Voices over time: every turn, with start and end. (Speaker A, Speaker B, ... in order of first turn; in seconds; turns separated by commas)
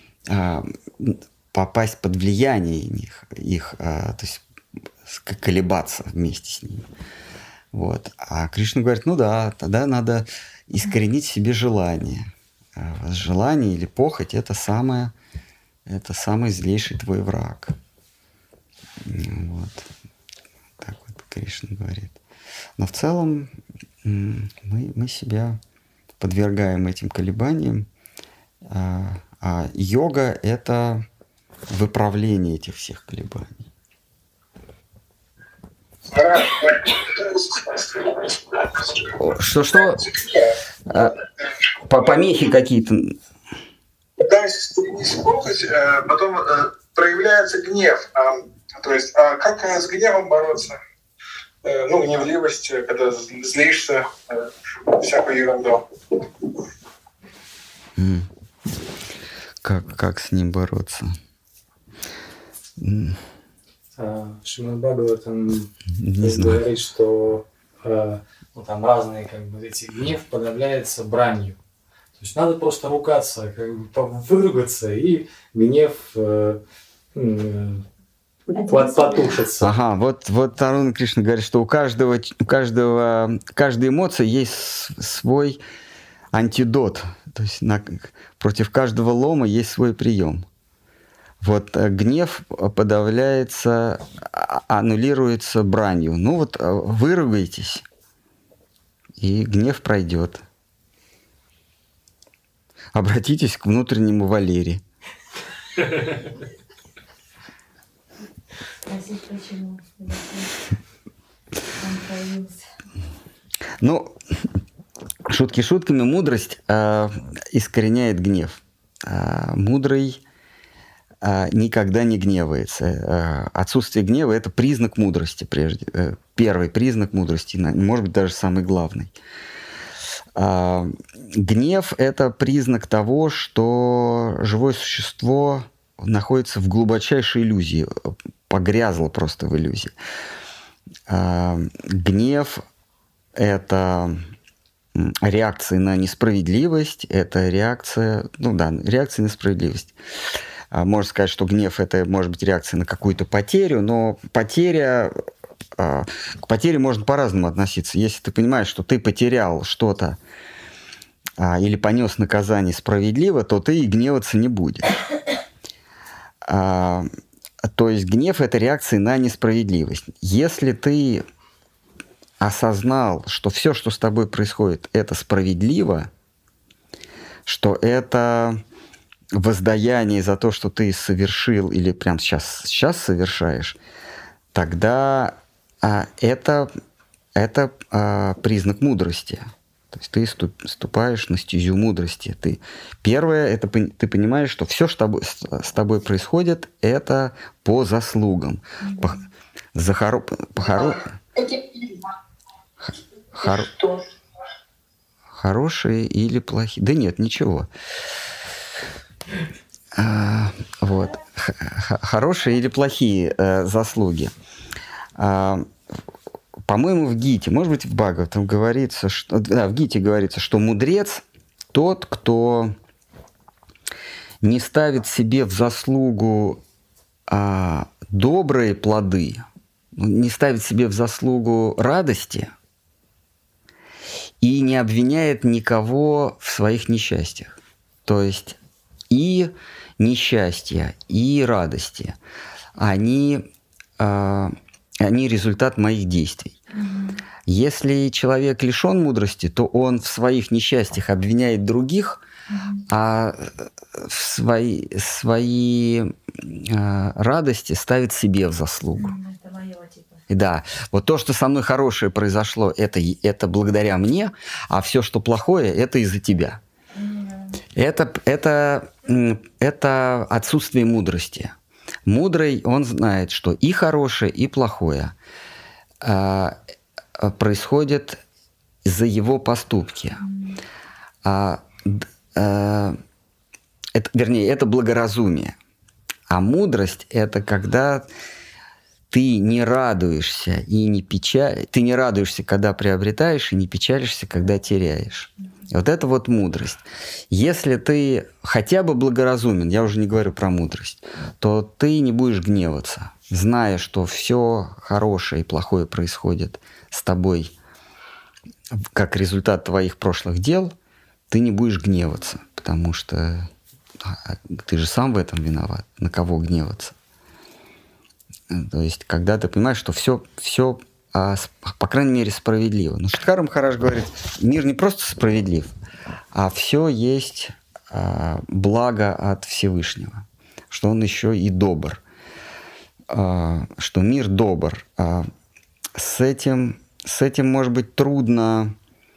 Speaker A: 0.3-4.4, Speaker A: 5.0-6.9, Speaker A: 7.7-15.1, Speaker A: 15.9-17.7, Speaker A: 19.0-19.9, Speaker A: 20.8-22.2, Speaker A: 22.8-25.6, Speaker A: 26.2-27.9, Speaker A: 28.7-31.1, Speaker A: 31.7-33.6, Speaker B: 36.1-39.1, Speaker A: 39.1-40.1, Speaker B: 39.7-42.5, Speaker A: 40.9-41.2, Speaker A: 41.9-43.2, Speaker B: 44.2-50.8, Speaker B: 51.6-55.9, Speaker A: 58.0-58.3, Speaker A: 59.6-61.2, Speaker A: 62.8-63.2, Speaker C: 63.9-71.6, Speaker A: 65.9-66.7, Speaker C: 72.2-76.6, Speaker C: 77.1-77.9, Speaker C: 78.6-79.7, Speaker D: 78.6-78.8, Speaker A: 79.6-85.6, Speaker A: 86.3-90.5, Speaker A: 91.4-97.8, Speaker A: 99.2-100.4, Speaker A: 102.9-104.8, Speaker D: 108.8-110.5, Speaker D: 111.8-112.6, Speaker A: 113.8-114.2, Speaker A: 115.3-120.2, Speaker A: 121.2-129.1, Speaker A: 130.4-139.9, Speaker A: 141.1-142.6, Speaker A: 143.4-144.3, Speaker A: 144.9-149.9, Speaker A: 150.7-155.2, Speaker A: 155.8-160.2, Speaker A: 161.4-164.9, Speaker A: 166.4-167.1, Speaker A: 167.7-171.2, Speaker A: 172.4-176.1, Speaker A: 177.5-178.6, Speaker A: 179.3-183.8, Speaker A: 184.5-186.7, Speaker A: 187.4-201.2, Speaker B: 201.4-201.9, Speaker A: 202.8-203.9, Speaker A: 205.3-207.7, Speaker A: 209.9-214.3, Speaker A: 215.2-215.7, Speaker A: 216.7-222.8, Speaker A: 224.4-226.6, Speaker A: 227.3-232.5, Speaker A: 234.4-237.5, Speaker A: 238.1-238.6, Speaker A: 239.1-242.2, Speaker A: 242.8-243.5, Speaker A: 244.0-246.6, Speaker D: 246.7-247.2, Speaker A: 247.5-252.2, Speaker D: 252.5-252.8, Speaker A: 252.9-259.1, Speaker D: 259.0-260.2, Speaker A: 260.3-266.6, Speaker D: 266.9-267.6, Speaker A: 267.8-271.5, Speaker A: 272.1-275.1, Speaker A: 276.0-276.6, Speaker A: 277.2-278.2, Speaker A: 278.9-280.2, Speaker D: 280.2-280.6, Speaker A: 281.2-283.0, Speaker A: 283.9-285.6, Speaker A: 286.3-288.1, Speaker A: 289.1-307.5, Speaker A: 308.8-310.8, Speaker A: 311.3-316.9, Speaker A: 318.5-325.7, Speaker A: 326.3-332.0, Speaker A: 333.1-335.3, Speaker A: 335.9-338.8